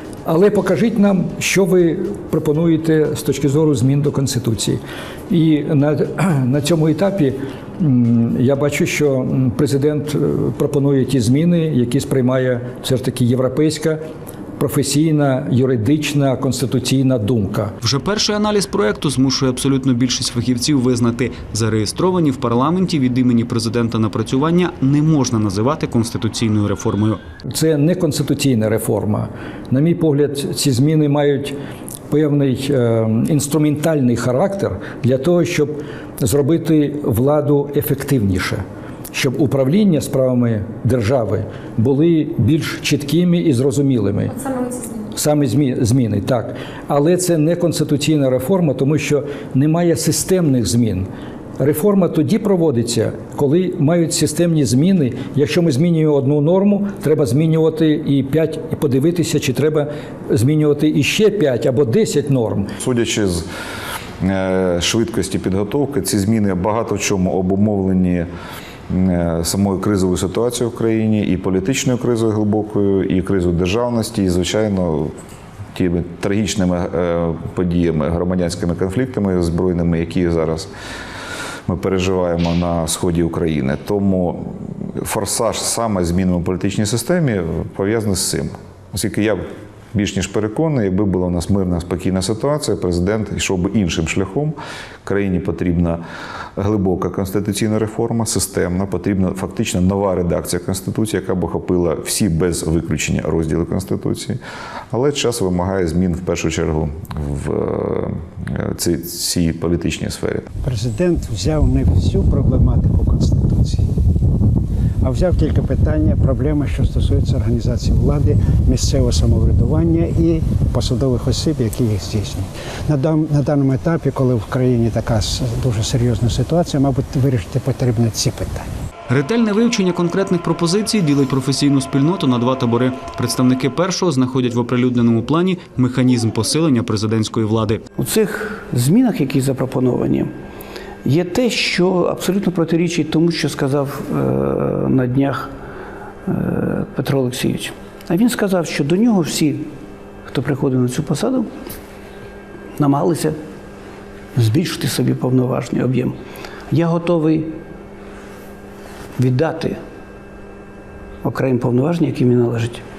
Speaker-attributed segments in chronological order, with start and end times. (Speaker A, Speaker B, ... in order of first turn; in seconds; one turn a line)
Speaker A: 0.2-14.0
Speaker A: 14.6-17.7
Speaker B: 17.8-27.2
Speaker A: 27.5-31.6
Speaker A: 32.1-62.7
Speaker C: 62.8-63.4
Speaker C: 64.2-68.3
Speaker C: 68.9-75.1
Speaker C: 75.7-80.7
Speaker C: 81.7-89.4
Speaker C: 89.9-96.0
Speaker C: 96.6-104.4
Speaker C: 104.9-110.5
Speaker D: 110.6-113.8
Speaker D: 115.0-128.7
Speaker B: 129.1-137.8
Speaker E: 138.0-140.3
Speaker E: 141.0-145.5
Speaker E: 146.3-149.6
Speaker E: 150.3-151.5
Speaker E: 152.8-153.3
Speaker E: 154.3-156.1
Speaker E: 156.7-157.5
Speaker E: 159.2-159.8
Speaker E: 161.2-162.8